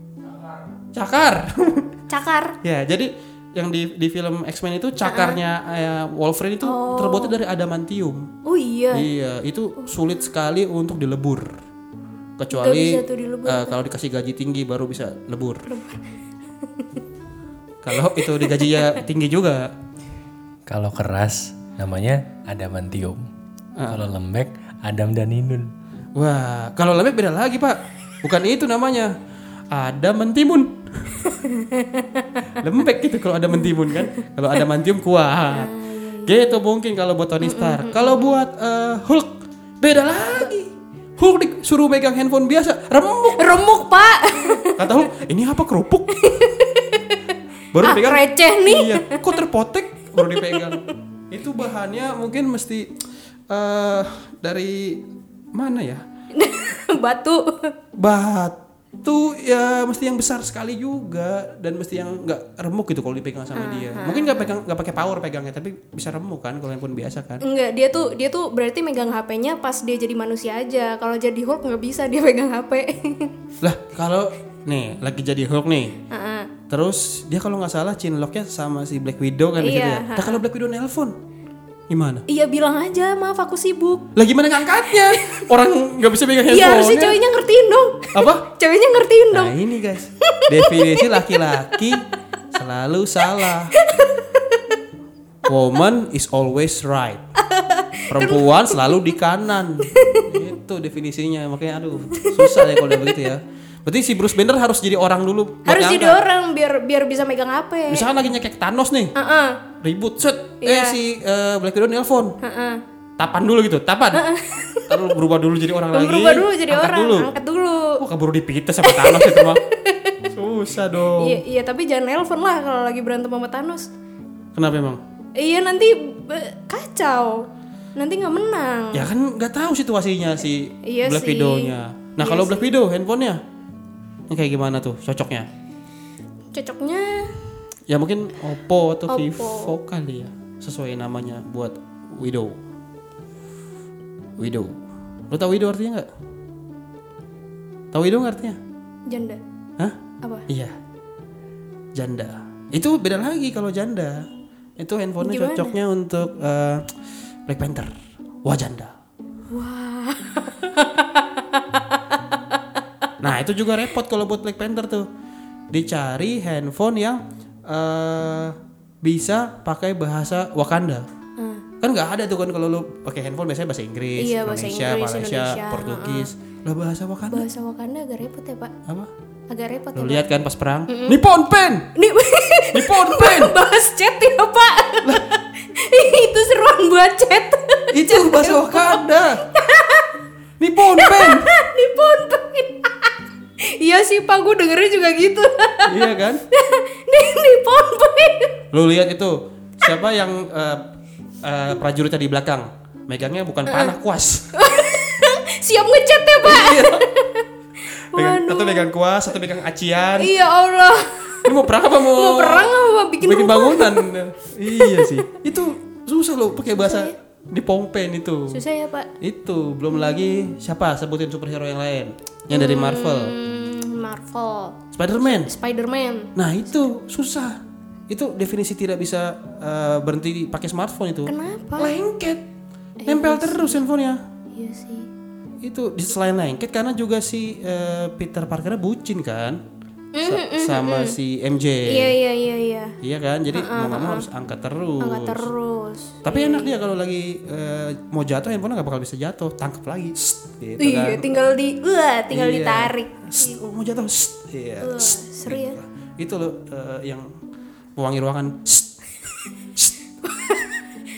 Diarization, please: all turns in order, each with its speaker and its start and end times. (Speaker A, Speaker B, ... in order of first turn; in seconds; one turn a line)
Speaker A: 0.9-1.9
Speaker B: 2.1-2.6
Speaker A: 2.6-8.3
Speaker B: 5.0-5.4
Speaker B: 6.6-7.4
Speaker B: 8.4-9.1
Speaker A: 8.9-11.6
Speaker A: 12.4-15.7
Speaker B: 12.5-13.8
Speaker B: 15.7-16.1
Speaker B: 16.6-17.0
Speaker A: 17.8-19.7
Speaker B: 17.9-19.0
Speaker C: 20.7-23.3
Speaker A: 23.8-24.0
Speaker C: 23.8-25.7
Speaker A: 26.1-29.1
Speaker A: 29.7-31.3
Speaker B: 31.2-32.4
Speaker A: 32.5-43.8
Speaker B: 33.5-34.1
Speaker B: 35.5-36.6
Speaker B: 37.4-38.4
Speaker B: 43.3-45.0
Speaker A: 44.6-46.5
Speaker B: 46.1-47.2
Speaker A: 47.7-52.9
Speaker B: 47.8-49.4
Speaker B: 50.2-50.9
Speaker A: 53.5-56.0
Speaker B: 56.3-57.7
Speaker A: 58.0-67.4
Speaker B: 63.5-64.6
Speaker B: 67.4-73.3
Speaker A: 73.6-76.0
Speaker B: 76.1-76.5
Speaker A: 76.7-81.2
Speaker B: 79.6-80.4
Speaker A: 81.9-82.2
Speaker B: 82.3-84.1
Speaker A: 84.1-87.2
Speaker B: 84.8-85.5
Speaker B: 86.5-89.5
Speaker A: 88.1-88.5
Speaker A: 89.3-93.8
Speaker B: 90.2-92.0
Speaker B: 93.4-94.8
Speaker A: 95.5-97.2
Speaker B: 97.4-99.2
Speaker A: 98.1-106.2
Speaker B: 99.8-100.4
Speaker B: 102.1-103.3
Speaker B: 105.7-108.1
Speaker A: 107.9-109.1
Speaker B: 109.2-109.6
Speaker A: 109.8-112.3
Speaker B: 110.6-111.0
Speaker B: 112.4-112.8
Speaker A: 113.2-114.3
Speaker B: 114.1-115.2
Speaker A: 114.9-117.3
Speaker B: 115.9-118.0
Speaker A: 118.0-119.6
Speaker B: 118.8-120.2
Speaker A: 120.2-121.4
Speaker B: 121.2-123.9
Speaker A: 124.5-125.0
Speaker B: 125.3-129.1
Speaker A: 128.9-133.4
Speaker B: 130.8-132.7
Speaker A: 134.3-135.5
Speaker B: 136.5-137.4
Speaker A: 137.9-142.6
Speaker B: 139.1-139.7
Speaker A: 144.4-144.8
Speaker A: 145.3-146.1
Speaker A: 147.9-148.6
Speaker B: 149.1-149.4
Speaker A: 150.5-150.7
Speaker A: 151.9-156.9
Speaker B: 155.2-155.8
Speaker A: 157.5-157.9
Speaker A: 158.4-158.9
Speaker B: 159.5-162.0
Speaker A: 163.2-165.1
Speaker A: 165.7-171.1
Speaker B: 171.4-171.6
Speaker A: 171.8-177.4
Speaker B: 174.2-176.3
Speaker B: 177.3-178.7
Speaker B: 179.5-180.2
Speaker A: 179.9-181.9
Speaker B: 180.9-181.2
Speaker B: 181.9-190.1
Speaker A: 182.7-183.6
Speaker A: 187.9-189.4
Speaker A: 190.6-191.5
Speaker B: 190.8-198.5
Speaker A: 195.8-196.4
Speaker A: 198.7-200.9
Speaker A: 201.4-204.6
Speaker B: 203.7-203.9
Speaker B: 204.5-207.5
Speaker A: 206.4-207.1
Speaker A: 208.1-210.3
Speaker B: 208.1-208.9
Speaker B: 210.2-215.3
Speaker A: 211.3-218.6
Speaker B: 216.7-217.1
Speaker B: 218.5-219.1
Speaker A: 219.2-223.4
Speaker B: 222.5-226.3
Speaker A: 224.9-225.5
Speaker A: 226.3-227.6
Speaker A: 228.1-232.4
Speaker B: 231.2-232.0
Speaker B: 233.0-233.8
Speaker A: 233.1-234.2
Speaker B: 234.5-235.1
Speaker A: 235.6-239.6
Speaker B: 240.2-241.2
Speaker A: 240.2-242.2
Speaker B: 241.9-243.0
Speaker A: 243.0-245.5
Speaker B: 243.5-244.3
Speaker B: 245.0-246.8
Speaker A: 246.2-251.4
Speaker B: 250.8-253.6
Speaker A: 252.3-257.3
Speaker B: 254.8-255.8
Speaker A: 258.0-258.9
Speaker B: 260.2-260.8